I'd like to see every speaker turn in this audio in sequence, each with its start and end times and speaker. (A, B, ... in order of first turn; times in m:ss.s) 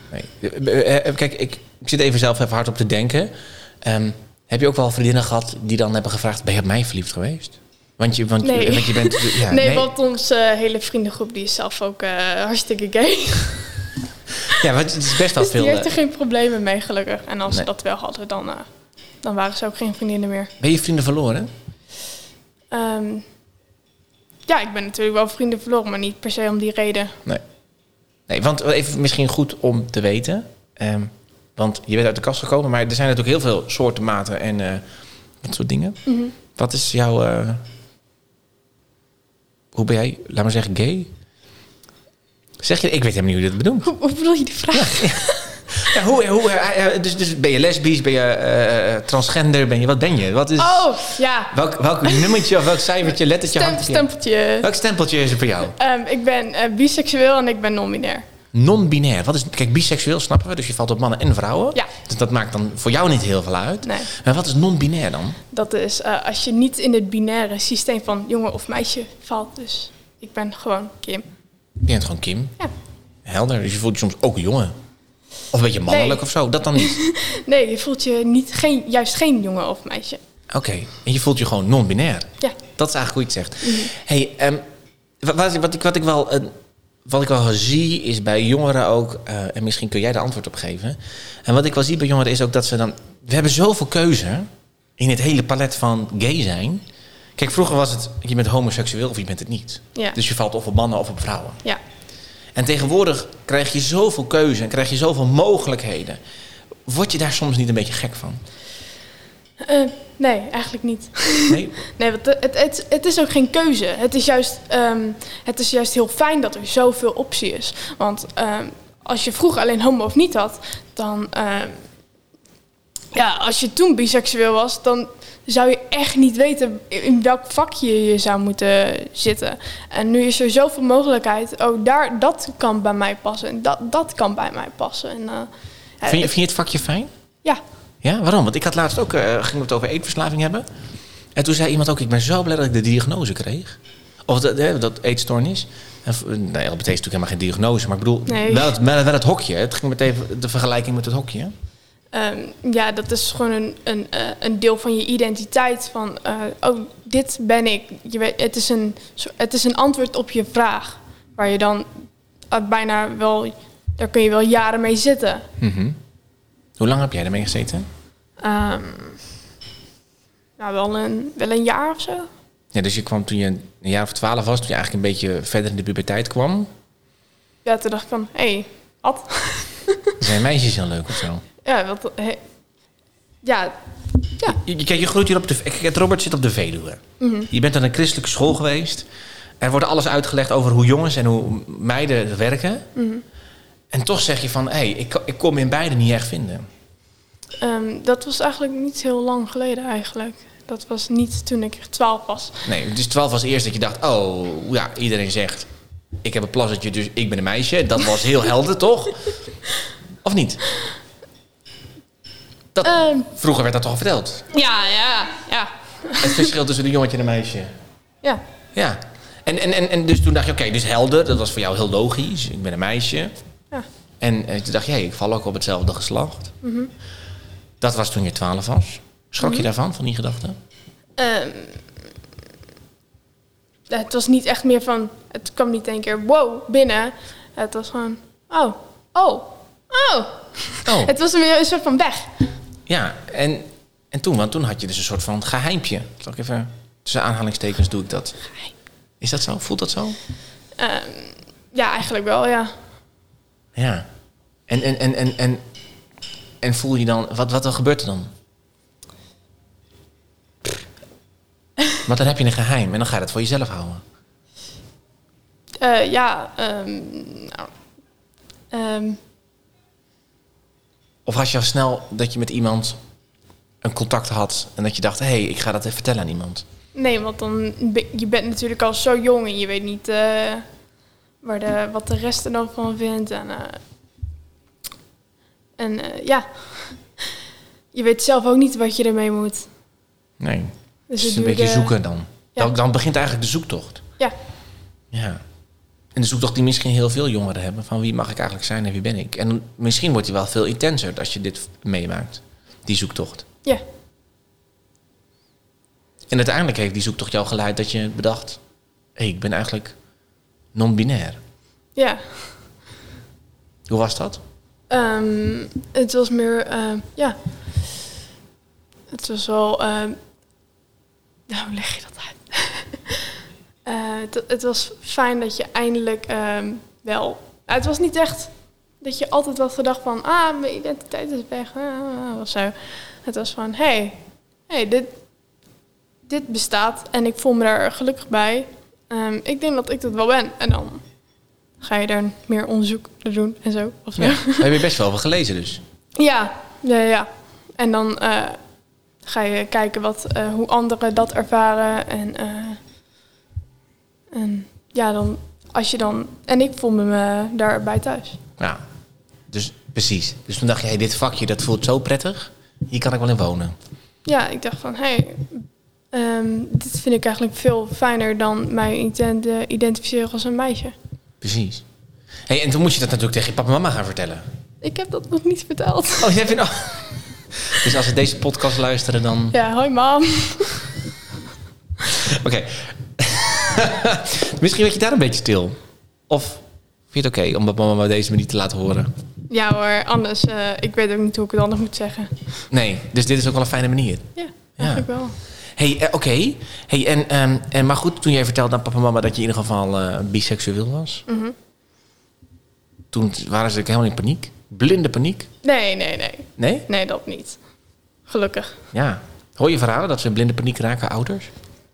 0:00.1-0:09.9 A
0:08.4-0:13.8 B
0:14.4-0:15.9 A
0:15.3-0:18.7 B
0:19.2-0:20.5 B
0:20.6-0:21.5 A
0:22.7-0:23.2 B
0:24.5-0:27.2 B
0:28.3-0:34.8 A
0:35.4-0:36.0 A
0:36.0-0:36.3 B
0:36.5-0:37.6 A
0:39.7-0:41.1 A
0:42.6-0:43.9 A
0:43.8-0:45.6 B
0:44.7-0:54.1 A
0:50.6-0:52.6 B
0:53.4-0:54.7 B
0:54.6-0:55.7 A
0:55.7-0:58.2 B
0:58.5-1:05.4 A
1:03.8-1:04.1 B
1:05.5-1:11.2 B
1:11.8-1:12.5 A
1:13.2-1:14.8 A
1:15.5-1:17.0 A
1:15.9-1:16.2 B
1:16.7-1:20.2 B
1:20.5-1:24.6 A
1:23.6-1:23.9 B
1:25.2-1:26.5 A
1:27.0-1:36.8 A
1:37.4-1:41.6 A
1:42.5-1:46.2 A
1:46.8-1:48.4 A
1:49.6-2:01.8 B
1:51.5-1:51.8 A
2:03.1-2:16.3 B
2:16.0-2:17.1 A
2:18.0-2:20.6 A
2:21.3-2:31.5 A
2:28.3-2:28.7 B
2:32.1-2:41.9 B
2:42.5-2:45.5 B
2:45.6-2:46.0 A
2:46.8-2:47.9 A
2:48.4-2:49.2 B
2:50.6-2:52.3 B
2:52.7-2:56.7 A
2:57.6-3:00.2 B
3:00.2-3:01.4 A
3:01.6-3:02.4 B
3:03.4-3:03.8 B
3:04.6-3:09.0 A
3:07.2-3:07.5 B
3:09.6-3:12.9 A
3:12.9-3:13.2 B
3:13.9-3:16.6 A
3:17.6-3:22.6 B
3:22.6-3:25.7 A
3:26.2-3:29.3 A
3:30.2-3:30.6 A
3:32.7-3:34.4 A
3:32.8-3:33.3 B
3:34.5-3:36.5 B
3:36.2-3:37.7 A
3:38.7-3:43.3 A
3:44.2-3:46.5 A
3:46.6-3:46.9 B
3:47.8-3:50.6 A
3:51.2-3:51.8 B
3:53.9-4:02.5 B
4:00.8-4:01.1 A
4:02.9-4:08.4 A
4:09.2-4:10.2 A
4:10.8-4:12.7 B
4:13.7-4:14.0 A
4:14.7-4:15.6 A
4:16.6-4:18.3 A
4:22.0-4:24.0 A
4:25.8-4:27.7 B
4:28.7-4:29.2 B
4:31.2-4:33.0 A
4:33.8-4:36.6 A
4:36.9-4:40.6 B
4:41.4-4:43.8 B
4:45.8-4:47.0 B
4:47.9-4:49.7 B
4:50.4-4:54.0 A
4:51.1-4:51.9 B
4:55.1-4:55.4 A
4:56.1-5:03.4 A
5:06.3-5:08.6 A
5:09.2-5:09.9 A
5:10.7-5:11.4 A
5:12.0-5:12.5 B
5:13.9-5:14.4 A
5:14.9-5:17.4 B
5:19.1-5:20.2 B
5:21.5-5:35.1 B
5:36.3-5:41.0 B
5:41.8-5:44.8 B
5:44.2-5:45.8 A
5:46.2-5:48.6 B
5:49.2-5:52.8 B
5:54.3-5:58.4 B
5:59.5-6:03.8 A
6:04.2-6:10.9 B
6:11.4-6:11.8 A
6:12.5-6:14.4 A
6:14.8-6:16.5 B
6:16.2-6:17.0 A
6:17.6-6:19.6 A
6:19.5-6:20.9 B
6:22.1-6:25.8 A
6:26.3-6:29.1 A
6:29.5-6:32.5 B
6:32.7-6:35.1 A
6:34.4-6:35.4 B
6:35.8-6:41.2 A
6:41.3-6:41.5 B
6:43.1-6:45.5 A
6:45.6-6:47.6 B
6:46.6-6:46.8 A
6:48.3-6:48.8 B
6:48.9-6:51.5 A